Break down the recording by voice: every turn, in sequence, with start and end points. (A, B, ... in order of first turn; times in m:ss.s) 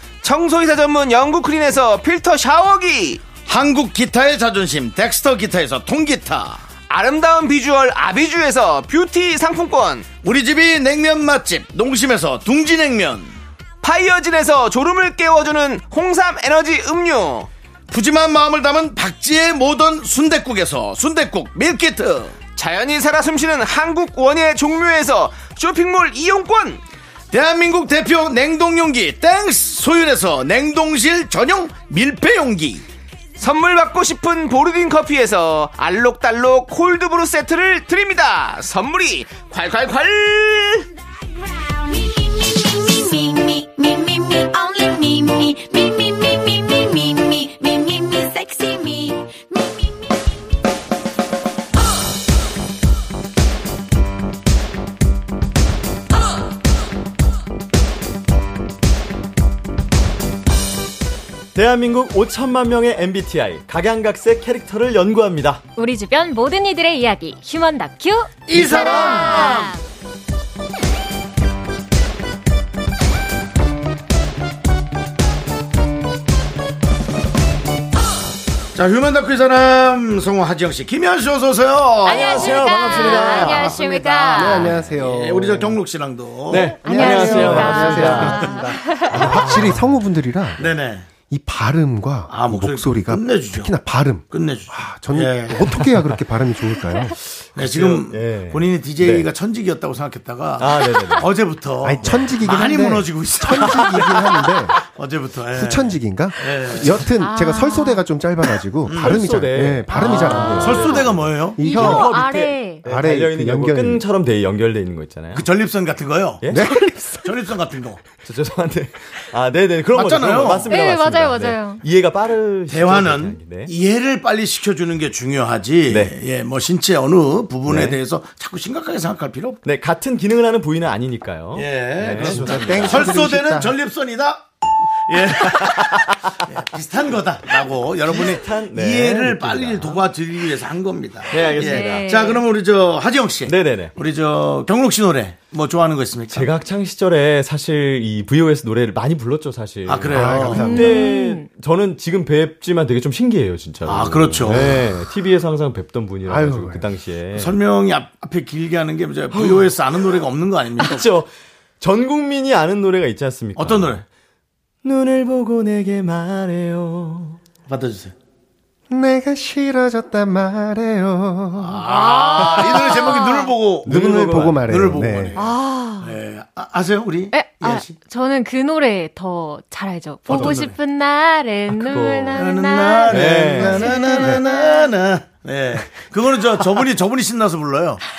0:00.2-0:03.2 A
0:03.5-0:06.6 B
0:06.9-0:10.1 A
0:10.2-0:13.4 B
0:13.8-0:17.5 A
0:17.9-0:22.4 B
0:22.6-0:26.8 A
0:27.3-0:32.8 B
0:33.4-0:40.9 A
0:41.7-0:50.2 C
1:01.6-1:05.6 D
1:05.8-1:09.8 E
1:08.5-1:09.7 B
1:18.8-1:30.0 B
1:22.0-1:24.7 E
1:22.2-1:23.8 D
1:24.3-1:25.8 F
1:26.5-1:28.5 D
1:26.8-1:29.2 E
1:26.8-1:30.7 F
1:29.2-1:29.9 D
1:30.6-1:31.1 B
1:31.3-1:37.2 F
1:32.3-1:33.7 B
1:34.3-1:35.9 B
1:35.7-1:36.2 D
1:37.2-1:39.3 D
1:37.6-1:47.1 B
1:40.6-1:41.3 D
1:41.8-1:44.8 F
1:43.7-1:44.3 D
1:45.5-1:52.2 F
1:47.2-1:48.1 E
1:48.9-1:49.2 B
1:48.9-1:55.5 D
1:49.9-1:52.8 E
1:50.0-1:52.3 B
1:52.8-1:54.0 F
1:55.3-1:56.5 B
1:56.4-1:57.0 D
1:56.5-1:57.2 F
1:57.2-1:58.0 B
1:58.2-2:03.7 D
1:59.9-2:00.7 B
2:00.7-2:01.8 E
2:02.7-2:09.6 B
2:05.9-2:06.1 D
2:07.7-2:08.0 D
2:09.6-2:13.2 D
2:11.5-2:14.5 B
2:12.1-2:13.8 F
2:15.1-2:26.5 B
2:15.4-2:16.3 D
2:18.0-2:20.0 D
2:21.3-2:22.2 D
2:21.3-2:22.4 E
2:23.5-2:23.9 D
2:26.3-2:37.5 D
2:29.9-2:30.7 B
2:30.1-2:31.0 F
2:30.6-2:31.5 E
2:33.8-2:34.8 B
2:36.3-2:36.9 F
2:37.3-2:41.1 B
2:39.3-2:39.7 D
2:40.8-2:41.3 D
2:41.8-2:44.0 D
2:43.6-2:44.0 B
2:44.8-2:47.4 D
2:47.7-2:48.1 B
2:48.9-2:52.0 F
2:51.6-2:58.0 B
2:52.0-2:53.5 E
2:53.8-2:54.7 D
2:53.8-2:55.4 F
2:55.4-2:56.2 E
2:57.3-3:04.9 E
3:00.3-3:00.7 B
3:00.3-3:00.7 D
3:01.7-3:02.4 D
3:02.3-3:08.0 B
3:03.1-3:04.0 D